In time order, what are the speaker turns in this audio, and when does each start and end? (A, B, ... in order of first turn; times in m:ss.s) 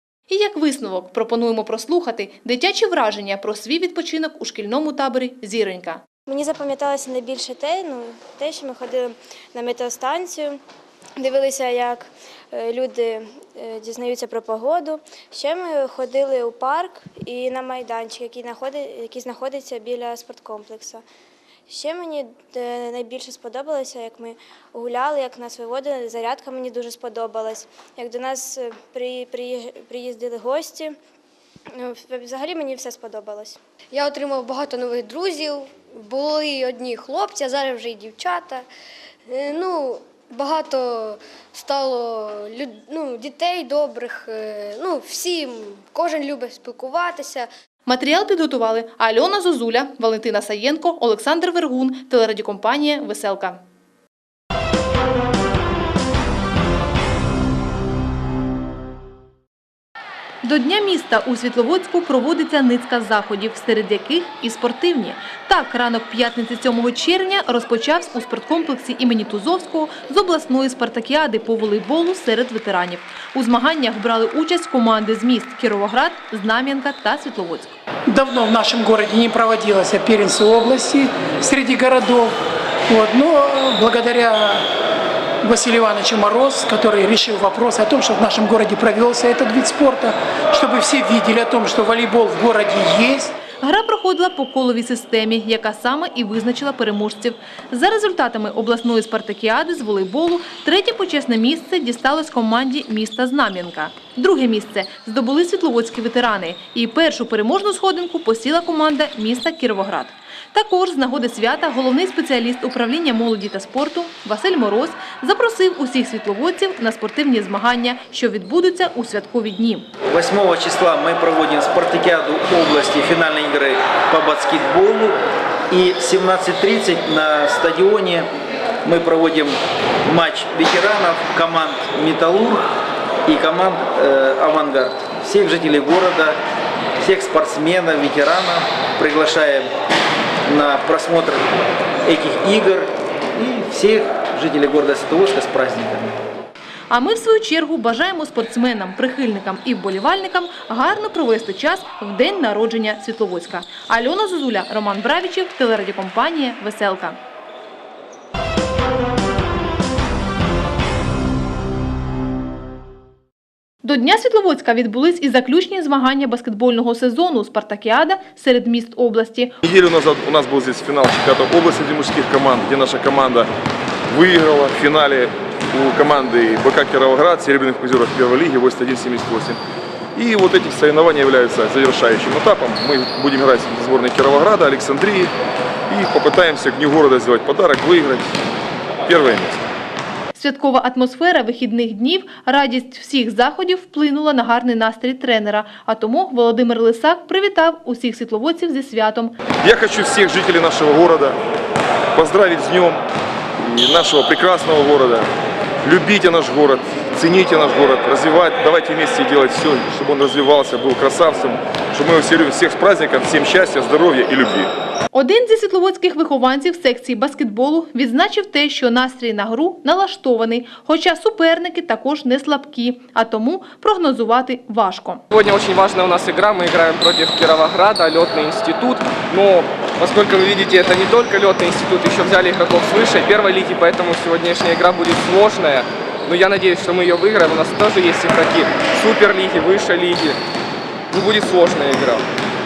0:00.3-0:06.0 A
0:06.3-0:10.6 B
0:11.2-0:21.0 B
0:21.7-0:31.0 B
0:31.8-0:33.6 B
0:33.9-0:38.6 C
0:39.3-0:47.5 C
0:47.9-0:53.6 A
1:00.4-1:17.8 A
1:18.1-1:22.4 D
1:22.9-1:24.6 D
1:25.4-1:33.3 D
1:33.6-1:59.9 A
2:00.1-2:08.3 E
2:08.8-2:12.7 E
2:13.3-2:16.4 E
2:17.0-2:19.7 E
2:20.4-2:21.5 E
2:22.0-2:26.2 E
2:26.9-2:37.2 A
2:43.8-2:49.6 A
2:49.7-2:53.5 F
2:54.2-2:59.6 F
3:00.2-3:05.3 F
3:05.9-3:08.2 F
3:09.2-3:09.5 F
3:10.4-3:19.3 A
3:19.7-3:21.3 F
3:22.2-3:22.9 F
3:23.8-3:25.2 F
3:25.9-3:34.7 F
3:35.1-3:45.2 A
3:45.3-4:00.4 G
4:01.1-4:02.2 G